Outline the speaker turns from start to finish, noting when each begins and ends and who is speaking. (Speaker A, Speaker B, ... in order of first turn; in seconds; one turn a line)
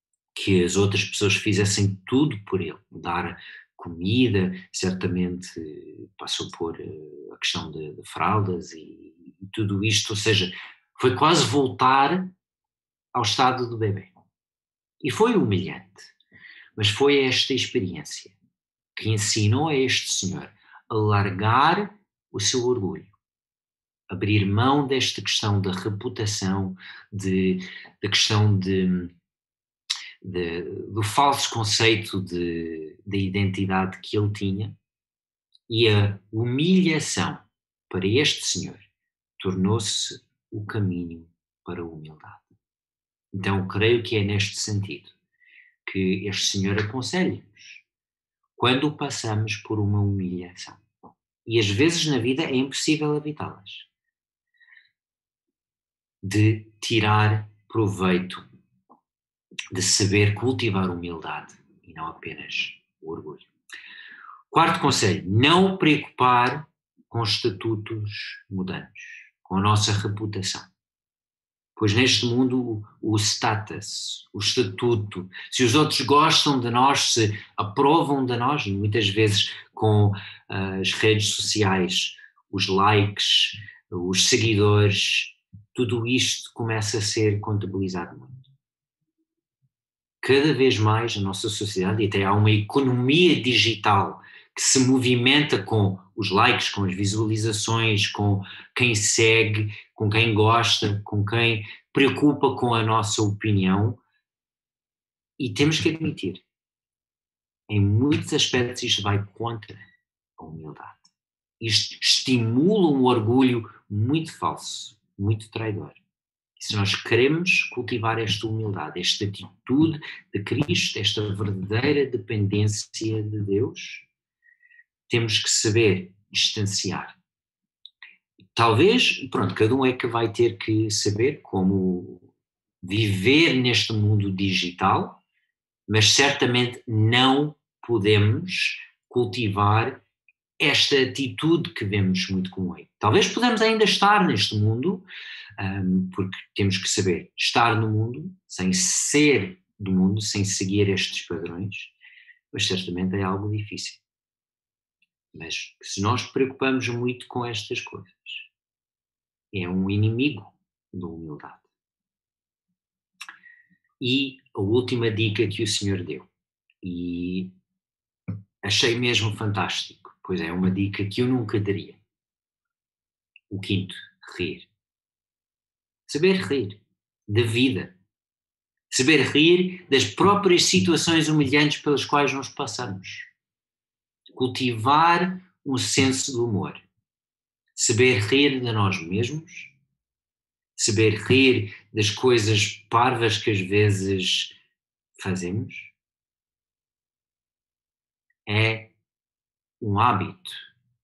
Speaker A: 0.3-12.3
Speaker A: 13.1-14.1
Speaker A: 15.0-16.1
Speaker A: 16.8-18.4
Speaker A: 18.9-23.1
Speaker A: 24.1-29.1
Speaker A: 30.2-34.8
Speaker A: 35.7-38.9
Speaker A: 39.4-42.5
Speaker A: 43.3-45.1
Speaker A: 45.8-47.8
Speaker A: 48.6-50.8
Speaker A: 51.5-53.9
Speaker A: 56.2-58.4
Speaker A: 59.7-63.5
Speaker A: 64.5-70.7
Speaker A: 71.8-88.5
Speaker A: 90.2-104.0
Speaker A: 105.4-106.4
Speaker A: 107.7-109.8
Speaker A: 110.4-116.0
Speaker A: 116.6-124.1
Speaker A: 125.1-127.1
Speaker A: 128.5-132.3
Speaker A: 132.8-135.2
Speaker A: 135.9-140.0
Speaker A: 140.6-145.1
Speaker A: 145.6-151.9
Speaker A: 152.5-154.0
Speaker A: 155.3-158.5
Speaker A: 159.5-161.7
Speaker A: 164.0-166.3
Speaker A: 166.8-167.5
Speaker A: 168.6-172.0
Speaker A: 173.5-174.7
Speaker A: 176.1-177.9
Speaker A: 178.9-183.3
Speaker A: 184.3-186.8
Speaker A: 187.8-189.7
Speaker A: 190.8-194.6
Speaker A: 195.2-195.9
Speaker A: 198.4-198.9
Speaker A: 199.8-200.7